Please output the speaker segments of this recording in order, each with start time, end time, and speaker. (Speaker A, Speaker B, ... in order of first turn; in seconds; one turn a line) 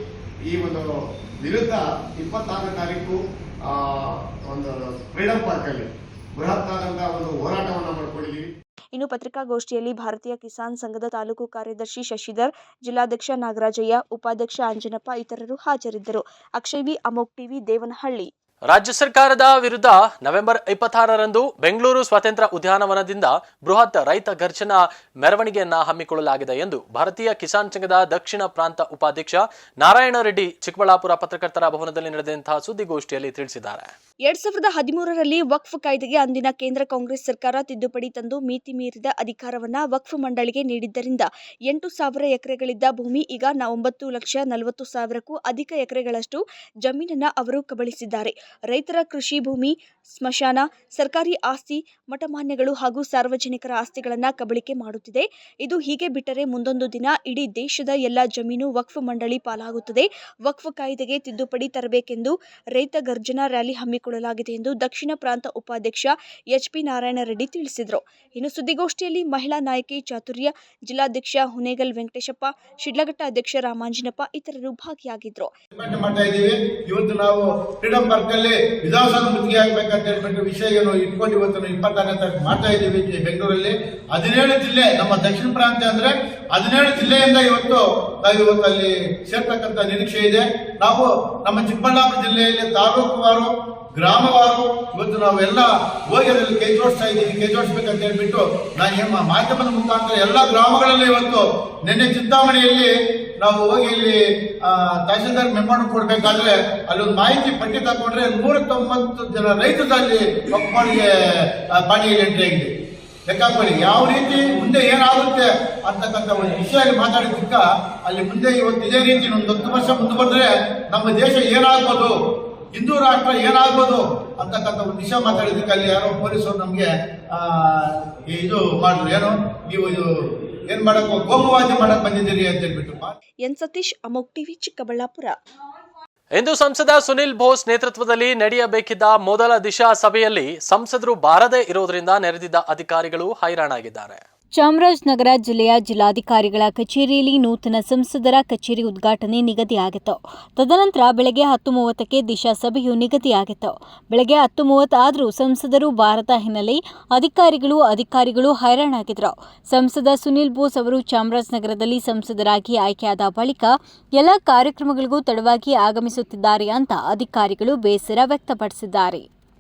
Speaker A: 0.5-0.8
Speaker A: 1.4-8.5
Speaker B: 8.9-18.3
Speaker C: 18.7-33.9
Speaker B: 34.2-75.5
Speaker D: 75.8-112.7
Speaker D: 113.3-122.1
Speaker D: 122.7-130.1
Speaker D: 130.7-133.1
Speaker B: 133.4-135.3
Speaker C: 136.3-144.2
Speaker E: 144.6-169.3